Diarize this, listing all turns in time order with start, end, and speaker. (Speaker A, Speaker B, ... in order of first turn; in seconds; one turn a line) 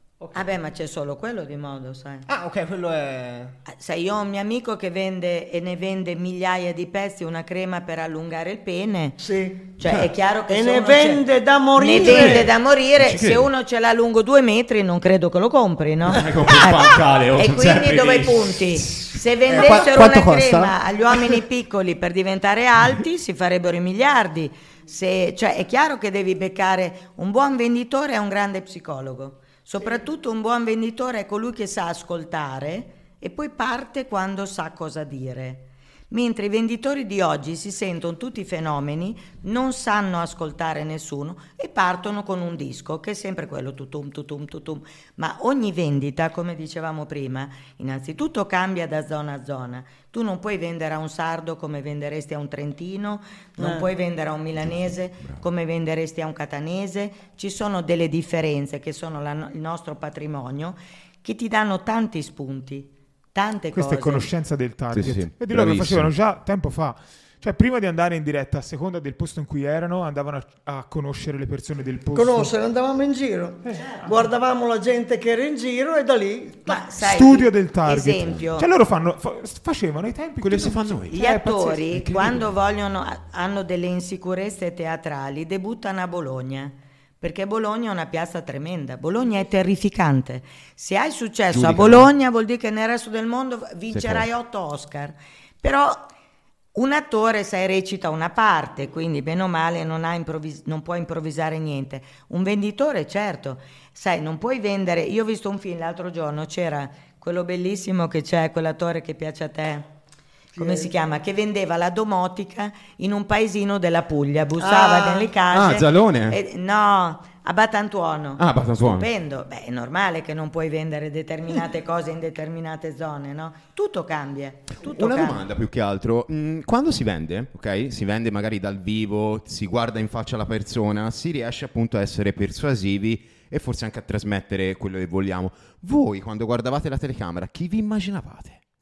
Speaker A: 0.3-2.3
Speaker B: 2.3-3.6
Speaker A: 3.7-9.2
Speaker C: 9.2-9.8
Speaker A: 9.8-64.3
Speaker D: 9.8-10.1
Speaker C: 10.5-12.5
Speaker D: 11.9-13.5
Speaker D: 16.1-18.6
Speaker B: 19.4-20.8
Speaker C: 53.6-53.9
Speaker D: 54.7-55.4
Speaker E: 63.7-72.5
Speaker D: 64.9-66.1
Speaker C: 72.2-76.8
Speaker E: 73.7-74.2
Speaker A: 76.7-78.7
Speaker E: 77.0-81.8
Speaker D: 80.4-81.2
Speaker A: 81.1-96.1
Speaker D: 81.8-82.5
Speaker D: 91.5-92.1
Speaker D: 93.9-94.3
Speaker A: 96.7-109.9
Speaker C: 110.6-110.9
Speaker A: 110.6-125.4
Speaker C: 114.6-115.3
Speaker D: 115.5-116.4
Speaker D: 118.4-119.1
Speaker D: 125.0-138.6